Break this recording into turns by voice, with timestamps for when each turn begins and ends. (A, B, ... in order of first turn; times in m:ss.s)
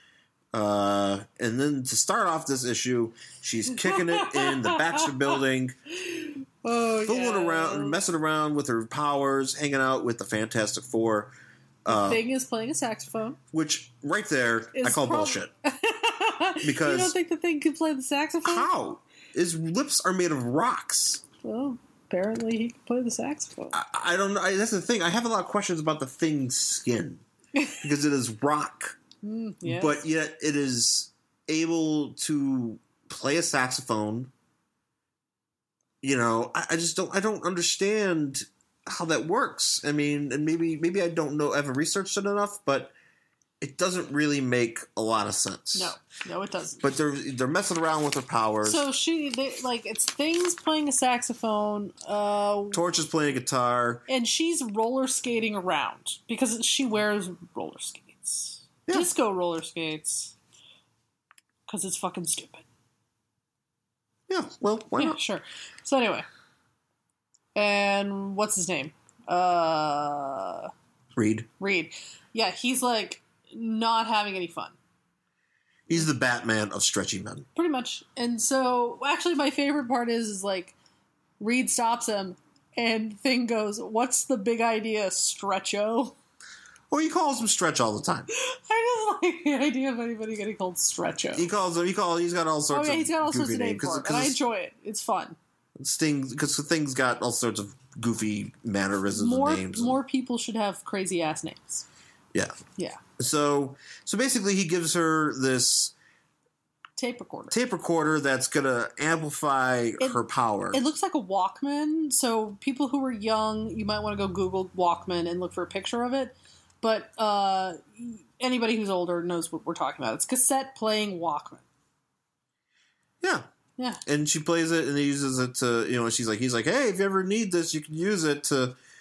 0:00.5-0:05.8 A
0:03.8-0:05.3 B
0:06.0-0:08.0 B
0:07.0-0:11.3 A
0:11.8-0:12.2 A
0:11.9-0:13.4 B
0:13.5-0:15.5 A
0:14.7-0:18.7 B
0:16.6-0:17.2 A
0:18.4-0:21.2 A
0:21.4-0:23.8 B
0:23.7-0:27.2 A
0:27.6-0:27.8 B
0:27.8-0:29.0 A
0:29.2-0:30.0 B
0:29.6-0:34.3 A
0:36.0-0:42.9 A
0:43.6-0:46.0 A
0:45.7-0:46.9 B
0:46.8-0:48.8 A
0:48.6-0:52.8 B
0:52.7-0:54.0 A
0:54.1-1:00.3 B
1:01.7-1:02.6 B
1:04.3-1:05.2 A
1:05.0-1:06.2 B
1:07.5-1:10.7 B
1:11.2-1:11.5 A
1:11.6-1:14.8 B
1:15.9-1:17.5 A
1:17.5-1:20.7 B
1:21.4-1:26.2 B
1:26.9-1:28.3 A
1:28.3-1:31.5 B
1:31.4-1:34.4 A
1:32.7-1:35.4 B
1:35.8-1:40.0 A
1:39.1-1:41.8 B
1:43.2-1:45.9 A
1:47.0-1:47.6 B
1:47.5-1:50.8 A
1:50.7-2:01.6 B
2:03.2-2:03.5 A
2:04.0-2:08.8 A